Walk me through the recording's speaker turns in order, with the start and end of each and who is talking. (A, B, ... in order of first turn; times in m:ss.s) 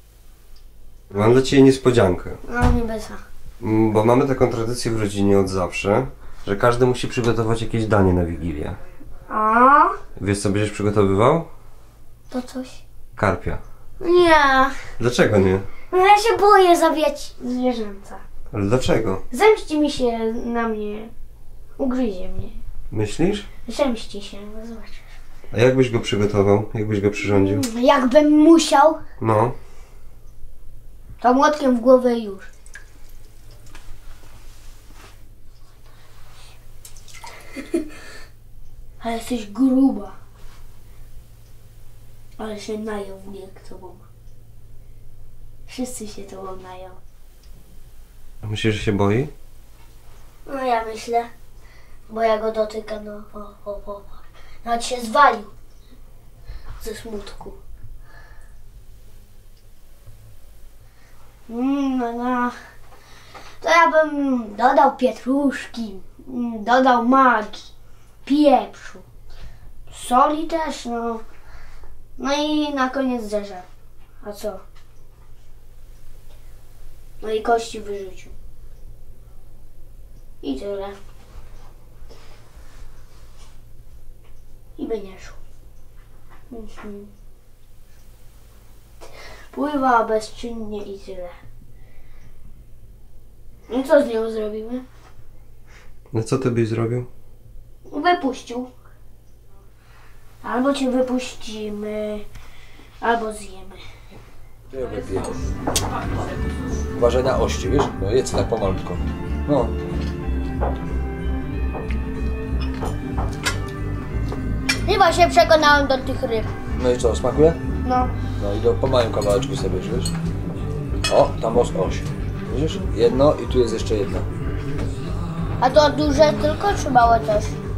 0:01.1-0:02.4 A
0:02.4-0:03.2 B
0:03.6-0:08.8 A
0:09.3-0:10.0 B
0:10.2-0:11.5 A
0:12.3-0:12.8 B
0:13.2-0:13.6 A
0:14.0-0:14.9 B
0:15.0-0:15.7 A
0:15.9-0:18.2 B
0:18.5-0:19.2 A
0:19.3-0:21.1 B
0:21.8-0:22.6 B
0:22.9-0:23.5 A
0:23.7-0:25.1 B
0:25.5-0:27.6 A
0:27.2-0:29.0 B
0:29.2-0:29.5 A
0:31.2-0:32.5 B
0:39.0-0:40.2 B
0:42.4-0:44.1 B
0:45.7-0:47.0 B
0:48.4-0:49.3 A
0:50.4-0:51.3 B
0:52.1-0:55.5 B
0:56.8-0:57.6 B
1:01.5-1:02.5 B
1:03.6-1:07.7 B
1:08.2-1:09.0 B
1:09.9-1:11.2 B
1:12.2-1:13.7 B
1:14.2-1:14.6 B
1:17.2-1:18.3 B
1:20.4-1:21.0 B
1:24.8-1:25.4 B
1:26.5-1:27.1 B
1:29.5-1:31.3 B
1:33.7-1:34.8 B
1:36.1-1:37.1 A
1:37.9-1:38.7 B
1:40.4-1:42.2 B
1:43.0-1:43.8 B
1:44.7-1:45.4 C
1:46.9-1:49.7 C
1:54.8-1:56.5 B
1:56.7-1:57.6 C
1:57.8-1:58.1 B
1:58.4-2:00.1 C
2:01.1-2:04.3 C
2:05.6-2:07.6 B